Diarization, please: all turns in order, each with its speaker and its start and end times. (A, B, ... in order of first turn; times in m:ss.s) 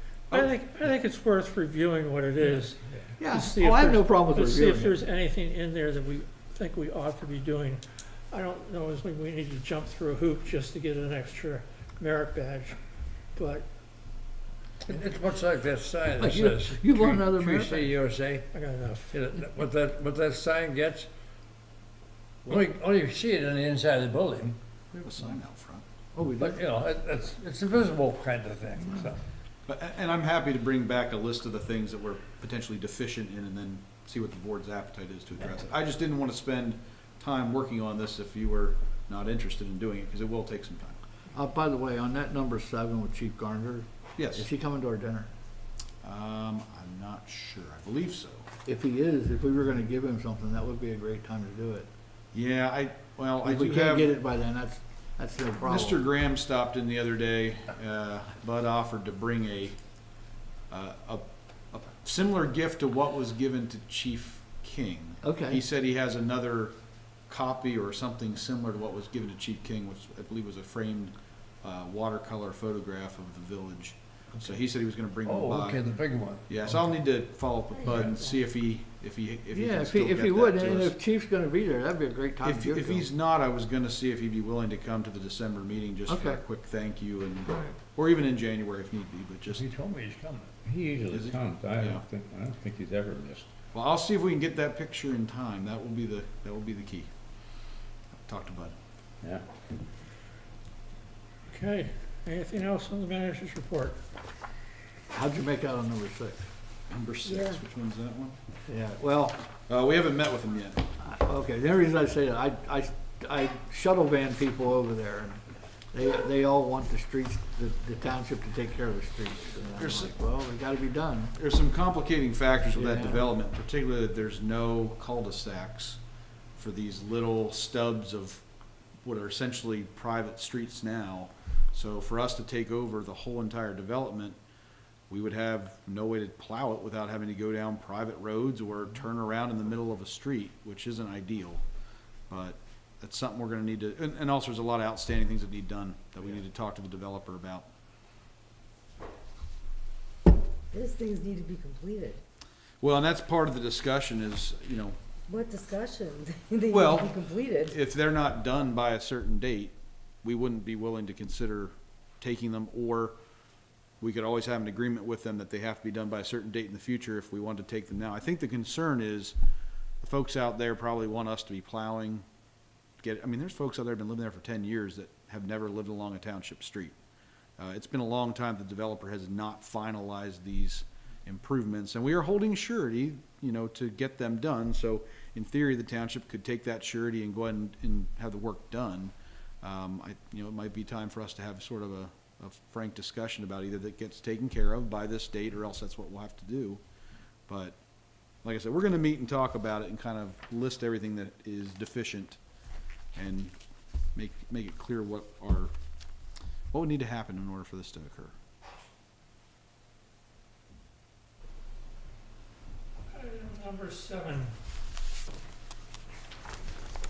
0:00.3-0:12.8 A
0:03.2-0:05.0 B
0:13.3-0:13.6 A
0:14.8-0:18.4 C
0:16.2-0:17.9 B
0:18.5-0:19.2 A
0:19.1-0:21.1 C
0:22.5-0:24.5 C
0:24.9-0:25.8 D
0:26.1-0:26.6 B
0:26.4-0:29.2 C
0:29.7-0:41.0 D
0:41.3-0:45.3 B
0:44.2-0:44.5 D
0:46.0-0:48.5 D
0:48.6-0:51.9 B
0:52.3-0:54.1 D
0:53.4-0:56.0 B
0:55.6-0:59.8 D
1:00.7-1:06.7 D
1:05.2-1:05.6 B
1:07.3-1:21.0 D
1:15.2-1:16.5 C
1:19.5-1:23.1 B
1:22.4-1:29.6 D
1:26.1-1:26.4 B
1:29.5-1:30.6 C
1:30.6-1:33.5 E
1:31.1-1:32.0 D
1:33.7-1:37.1 D
1:38.2-1:38.7 D
1:41.5-1:44.0 A
1:45.1-1:46.5 B
1:46.9-1:48.4 D
1:48.7-1:49.4 B
1:49.7-1:50.8 D
1:51.0-1:55.4 B
1:55.9-2:01.3 B
1:59.8-2:00.1 D
2:01.3-2:06.0 D
2:02.6-2:03.4 B
2:06.6-2:08.4 D
2:09.0-2:14.4 D
2:15.1-2:21.6 D
2:22.3-2:27.7 D
2:30.7-2:32.2 F
2:32.8-2:35.0 D
2:35.3-2:37.7 F
2:36.7-2:43.2 D
2:44.0-2:49.4 D
2:50.0-2:52.2 D
2:53.0-2:57.0 D
2:57.6-3:16.8 D
3:17.5-3:17.8 D
3:18.4-3:22.4 D
3:23.1-3:23.5 D
3:24.1-3:25.7 D
3:26.7-3:28.3 D
3:33.1-3:34.5 A